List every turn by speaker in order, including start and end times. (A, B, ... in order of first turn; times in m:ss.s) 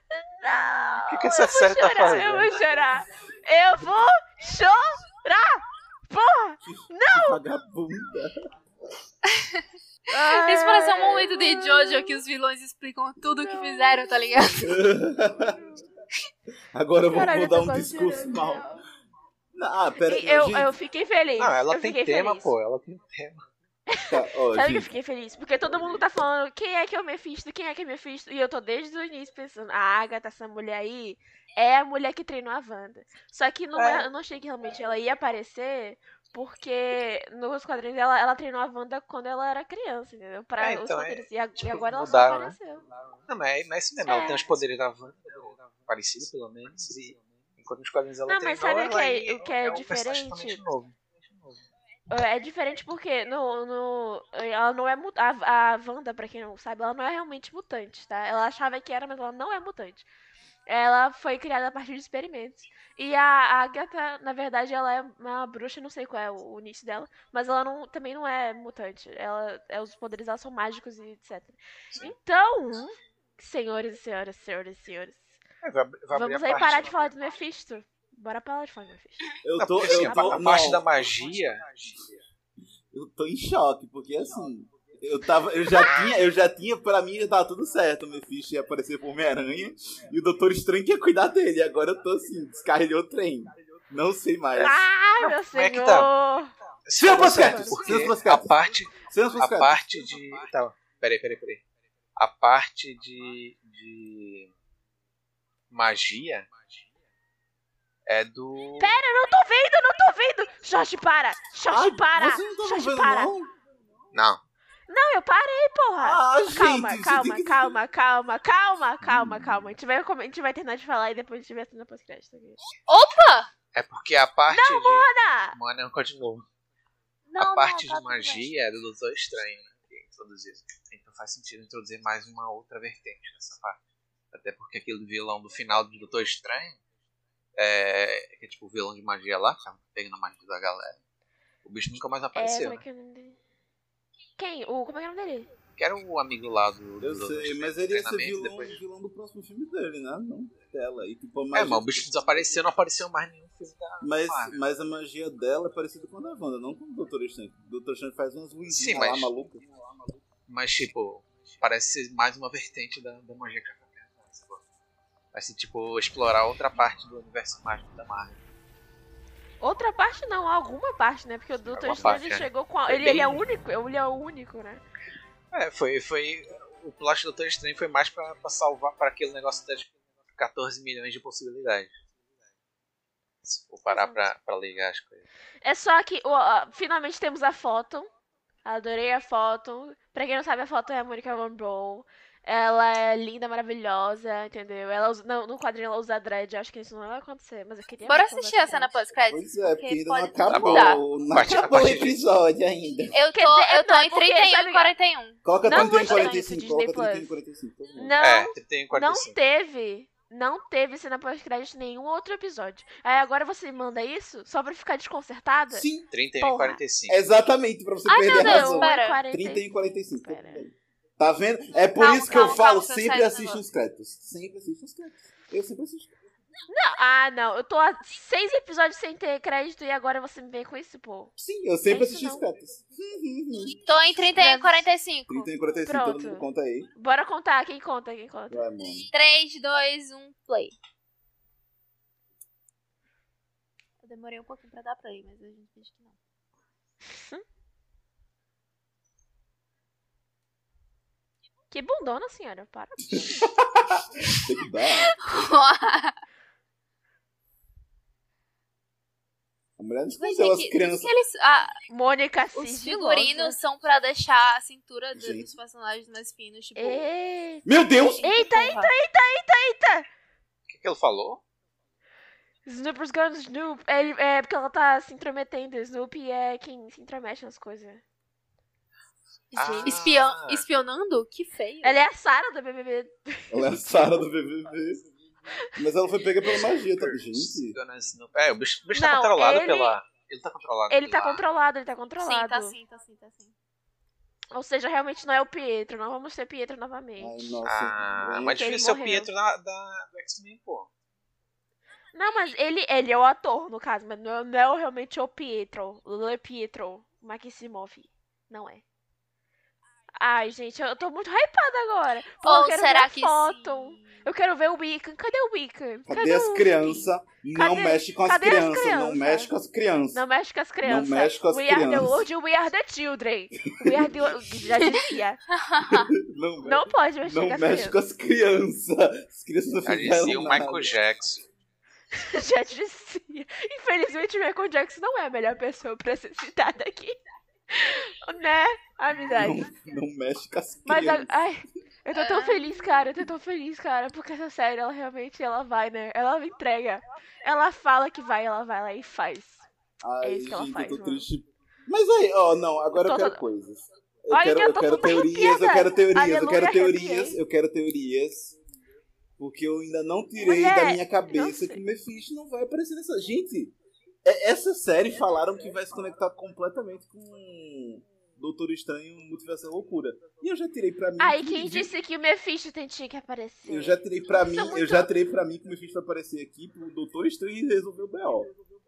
0:00.1-0:07.4 A
0:01.1-0:02.6 B
0:06.6-0:08.4 C
0:09.4-0:09.6 D
0:10.1-0:12.2 A
0:10.3-0:14.7 D
0:13.4-0:14.3 A
0:14.6-0:15.6 C
0:16.7-0:18.7 C
0:17.0-0:18.8 D
0:19.5-0:20.7 C
0:20.0-0:22.5 A
0:21.4-0:23.4 B
0:23.9-0:42.8 A
0:24.1-0:24.9 C
0:33.7-0:34.1 B
0:40.6-0:42.6 B
0:43.2-0:51.6 B
0:44.0-0:44.5 A
0:48.3-0:50.6 A
0:52.1-1:00.1 A
1:00.7-1:15.4 A
1:15.6-1:17.1 B
1:16.1-1:19.4 A
1:19.4-1:21.4 C
1:19.5-1:22.1 B
1:19.9-1:20.7 A
1:22.9-1:34.8 C
1:25.7-1:26.1 A
1:34.6-1:36.1 B
1:34.6-1:36.5 A
1:36.8-1:41.6 B
1:37.0-1:39.8 C
1:37.1-1:38.0 A
1:42.2-1:44.5 B
1:45.7-1:46.7 B
1:48.0-1:48.9 B
1:48.8-1:53.3 A
1:51.7-1:53.5 C
1:54.1-1:54.4 B
1:54.9-2:02.6 A
1:56.0-1:57.8 C
1:59.0-1:59.7 C
2:02.9-2:03.5 D
2:03.7-2:06.4 B
2:04.5-2:05.6 A
2:07.3-2:08.5 D
2:07.4-2:13.8 B
2:14.3-2:16.8 B
2:17.6-2:21.0 B
2:21.6-2:22.8 B
2:22.3-2:23.4 A
2:24.4-2:25.5 A
2:25.8-2:28.8 B
2:27.0-2:32.4 C
2:31.5-2:34.6 B
2:34.0-2:39.6 C
2:38.7-2:39.3 B
2:40.5-2:44.6 B
2:45.3-2:48.4 B
2:49.6-2:54.8 A
2:51.7-2:53.4 B
2:55.5-3:01.9 B
3:03.4-3:05.2 B
3:03.9-3:04.3 A
3:05.6-3:08.1 A
3:08.6-3:19.0 A
3:18.0-3:21.0 D
3:19.2-3:23.1 C
3:20.5-3:22.2 B
3:23.1-3:26.4 D
3:23.3-3:24.9 A
3:25.4-3:28.2 C
3:25.6-3:27.3 A
3:27.9-3:35.8 A
3:28.2-3:29.4 B
3:35.7-3:36.1 C
3:36.1-3:37.2 B
3:36.4-3:36.8 A
3:37.1-3:46.1 C
3:38.0-3:39.2 D
3:38.2-3:40.6 A
3:42.0-3:43.6 D
3:46.7-3:51.3 A
3:51.4-3:54.3 C
3:51.8-3:52.4 A
3:53.9-3:55.5 D
3:54.3-3:54.8 A
3:55.3-3:56.9 C
3:55.8-3:58.7 A
3:58.5-3:59.1 C
3:59.1-4:00.7 D
4:04.0-4:06.2 D
4:07.1-4:07.4 A
4:11.7-4:13.4 A
4:13.1-4:15.2 C
4:15.2-4:16.2 D
4:19.8-4:21.1 C
4:20.1-4:21.8 D
4:21.9-4:23.6 A
4:22.5-4:27.0 D
4:25.1-4:25.5 C
4:26.8-4:30.1 A
4:27.6-4:28.7 C
4:28.2-4:28.9 D
4:30.7-4:31.4 B
4:32.6-4:38.0 A
4:39.5-4:40.0 A
4:39.5-4:40.6 B
4:39.8-4:42.0 D
4:41.8-4:44.2 A
4:43.5-4:45.0 C
4:45.8-4:47.8 C
4:46.8-4:51.4 B
4:48.9-4:50.0 A
4:50.9-4:52.8 A
4:52.2-4:53.5 D
4:54.5-4:57.6 A
4:57.2-4:58.6 C
4:57.6-5:00.9 B
4:58.4-4:59.3 A
5:02.1-5:08.8 A
5:10.2-5:19.5 A
5:12.4-5:14.2 D
5:16.0-5:20.2 C
5:20.1-5:25.4 A
5:20.8-5:22.3 C
5:23.6-5:24.7 C
5:24.8-5:26.1 D
5:25.8-5:31.0 C
5:26.6-5:28.0 A
5:29.8-5:31.5 B
5:32.2-5:37.2 A
5:37.7-5:39.6 A
5:39.1-5:41.3 C
5:40.8-5:49.7 A
5:42.1-5:42.6 D
5:50.0-5:58.6 C
5:50.2-5:51.3 A
5:52.9-5:53.4 A
5:54.3-5:57.4 A
5:59.4-6:11.9 C
6:00.4-6:01.8 A
6:11.2-6:15.1 A
6:13.6-6:18.5 C